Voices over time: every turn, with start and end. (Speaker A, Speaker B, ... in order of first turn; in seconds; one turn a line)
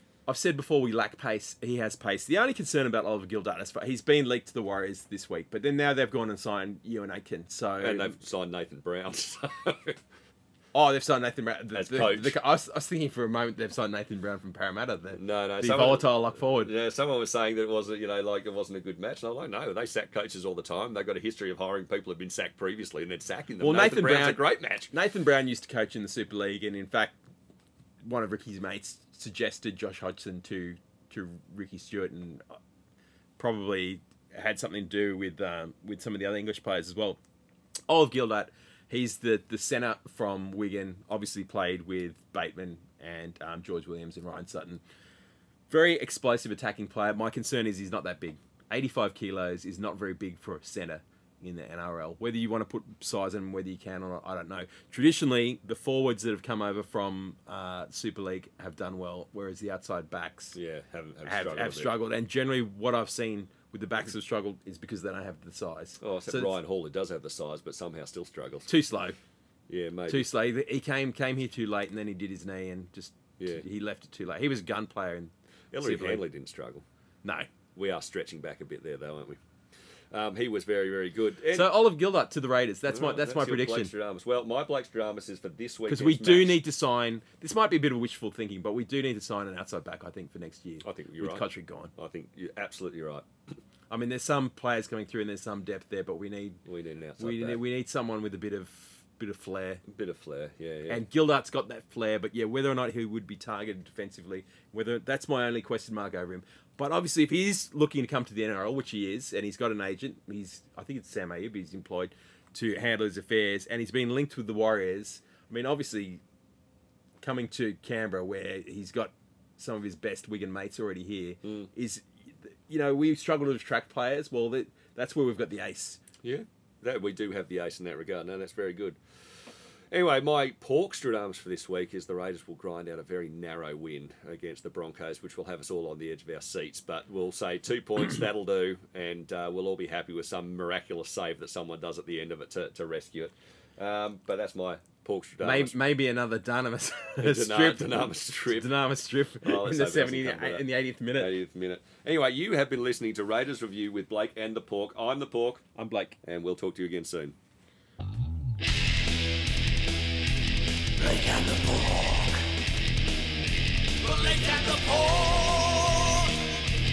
Speaker A: 0.3-8.2
Speaker B: 7.8-10.0
Speaker A: 10.7-16.7
Speaker B: 11.7-12.4
Speaker B: 15.1-24.9
Speaker A: 23.6-27.2
Speaker A: 28.0-32.5
Speaker A: 33.4-37.2
Speaker A: 37.9-44.8
Speaker A: 45.7-60.5
Speaker B: 60.5-61.9
Speaker A: 61.2-66.5
Speaker B: 66.0-68.7
Speaker A: 68.7-69.2
Speaker B: 69.7-70.3
Speaker A: 70.1-76.2
Speaker B: 73.4-73.6
Speaker B: 75.7-76.8
Speaker A: 77.2-77.5
Speaker B: 77.7-79.4
Speaker B: 80.1-81.8
Speaker A: 81.5-83.9
Speaker B: 82.9-86.6
Speaker A: 85.9-91.9
Speaker B: 90.8-93.3
Speaker A: 93.9-96.6
Speaker B: 96.7-97.6
Speaker A: 97.2-99.8
Speaker B: 99.9-101.0
Speaker A: 100.9-116.2
Speaker A: 117.2-126.0
Speaker B: 121.4-121.7
Speaker B: 126.2-129.0
Speaker B: 129.9-145.7
Speaker A: 145.4-151.3
Speaker B: 147.2-148.7
Speaker B: 149.4-155.6
Speaker A: 155.8-156.2
Speaker B: 156.2-157.3
Speaker C: 161.0-162.4
Speaker C: 164.0-166.5